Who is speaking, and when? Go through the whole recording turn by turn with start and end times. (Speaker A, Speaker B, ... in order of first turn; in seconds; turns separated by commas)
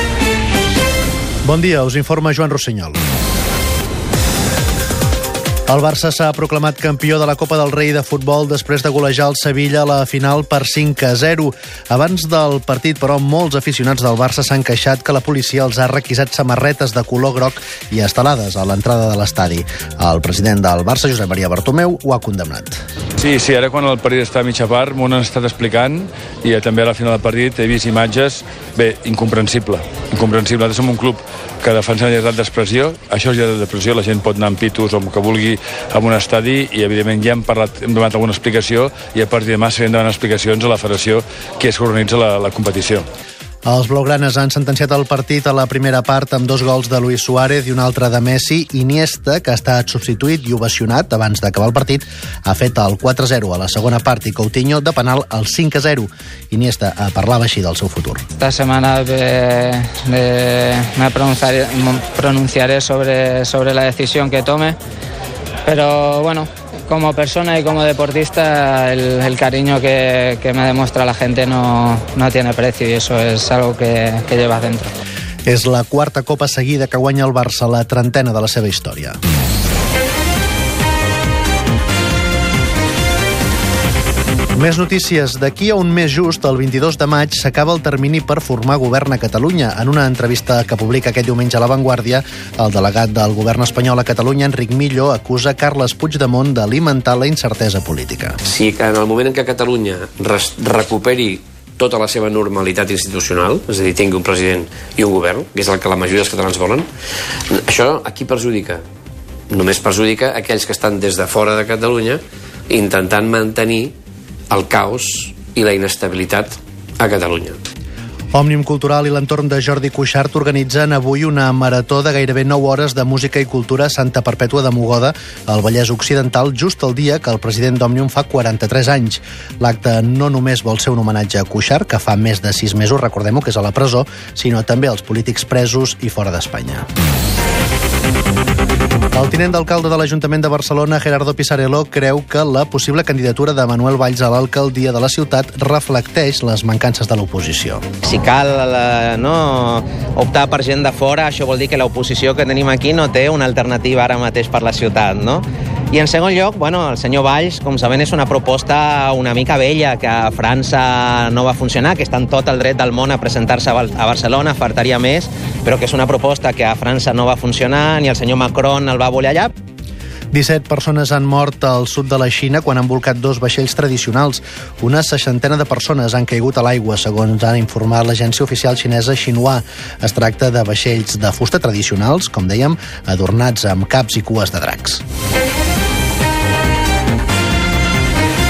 Speaker A: 1.4-3.0, Speaker A: 5.7-22.8, Speaker B: 23.2-43.0, Speaker A: 43.6-58.2, Speaker C: 58.4-64.8, Speaker C: 65.7-74.9, Speaker A: 75.5-79.2, Speaker A: 84.5-98.4, Speaker D: 98.4-106.9, Speaker D: 107.5-108.8, Speaker D: 109.5-113.9, Speaker D: 114.5-117.6, Speaker A: 118.3-136.8, Speaker A: 139.1-147.8, Speaker E: 148.0-169.5, Speaker A: 170.3-185.0